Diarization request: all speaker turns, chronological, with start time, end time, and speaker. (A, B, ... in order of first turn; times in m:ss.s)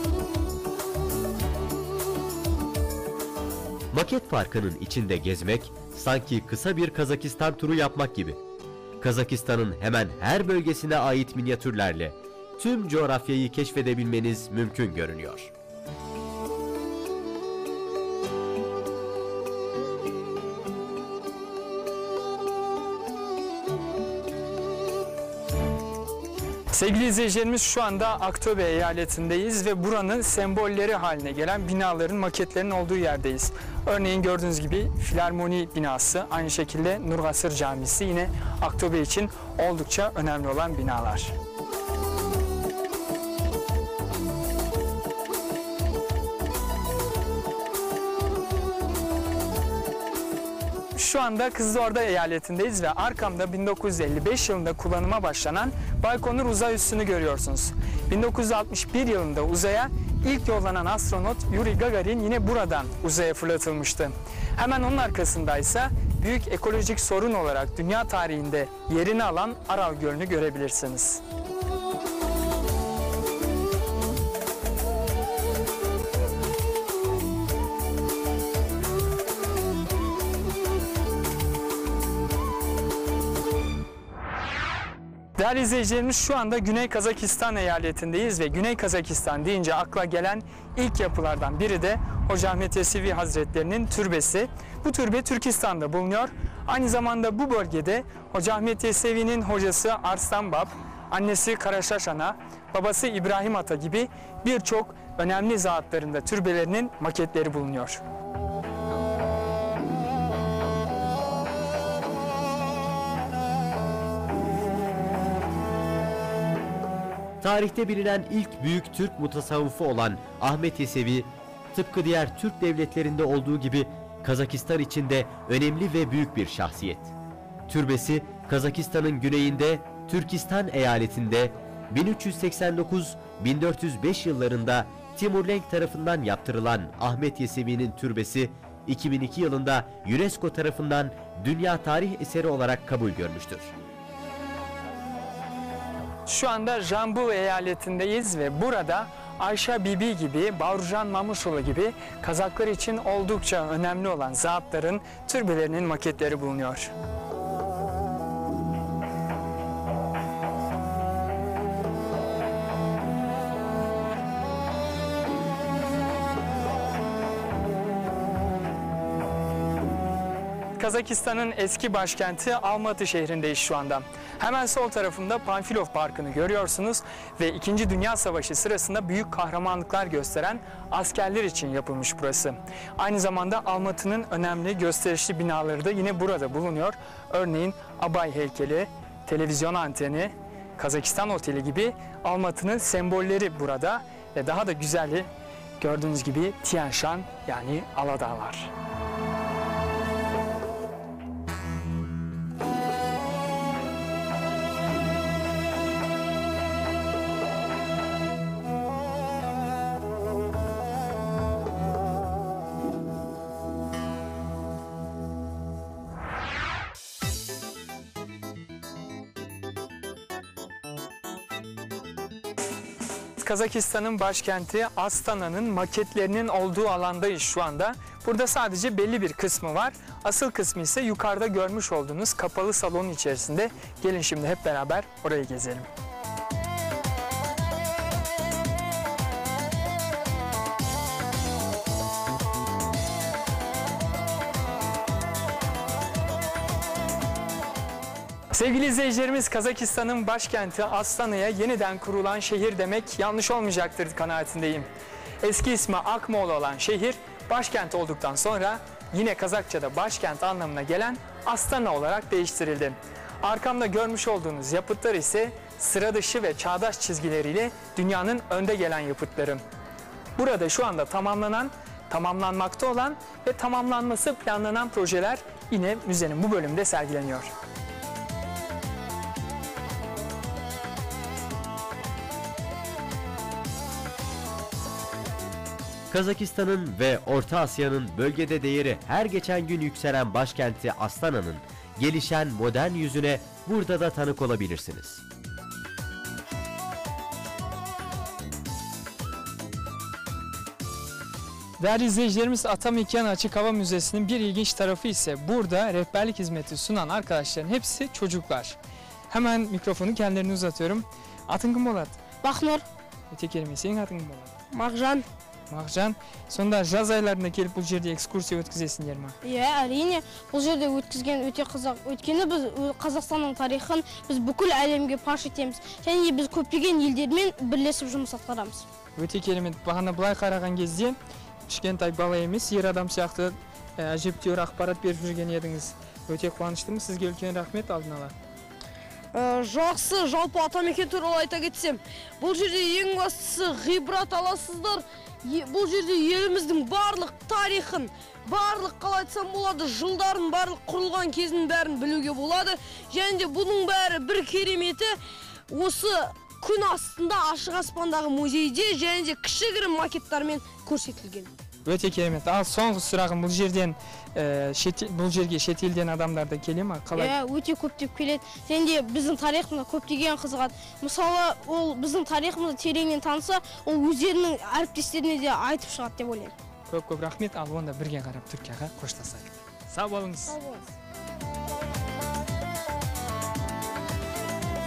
0:03.9-0:08.4 A
0:09.0-0:15.5 A
0:26.7-0:41.3 B
0:50.9-1:11.2 B
1:25.4-1:48.0 B
1:57.4-2:07.1 A
2:07.7-2:23.7 A
2:26.2-2:36.9 B
2:50.8-3:15.3 B
3:15.8-3:18.7 B
3:43.4-3:55.9 B
4:08.5-4:14.9 B
4:15.4-4:29.6 B
4:30.4-4:37.5 B
4:46.1-4:55.2 A
5:01.8-5:08.8 B
5:09.3-5:12.2 B
5:12.4-5:12.8 C
5:13.3-5:14.5 B
5:14.7-5:15.2 C
5:15.7-5:19.4 B
5:19.4-5:28.8 C
5:29.2-5:31.2 B
5:31.7-5:38.3 B
5:39.3-5:55.1 D
5:55.7-6:01.5 D
6:01.8-6:07.4 B
6:07.1-6:16.5 C
6:16.9-6:20.6 B
6:20.5-6:20.8 C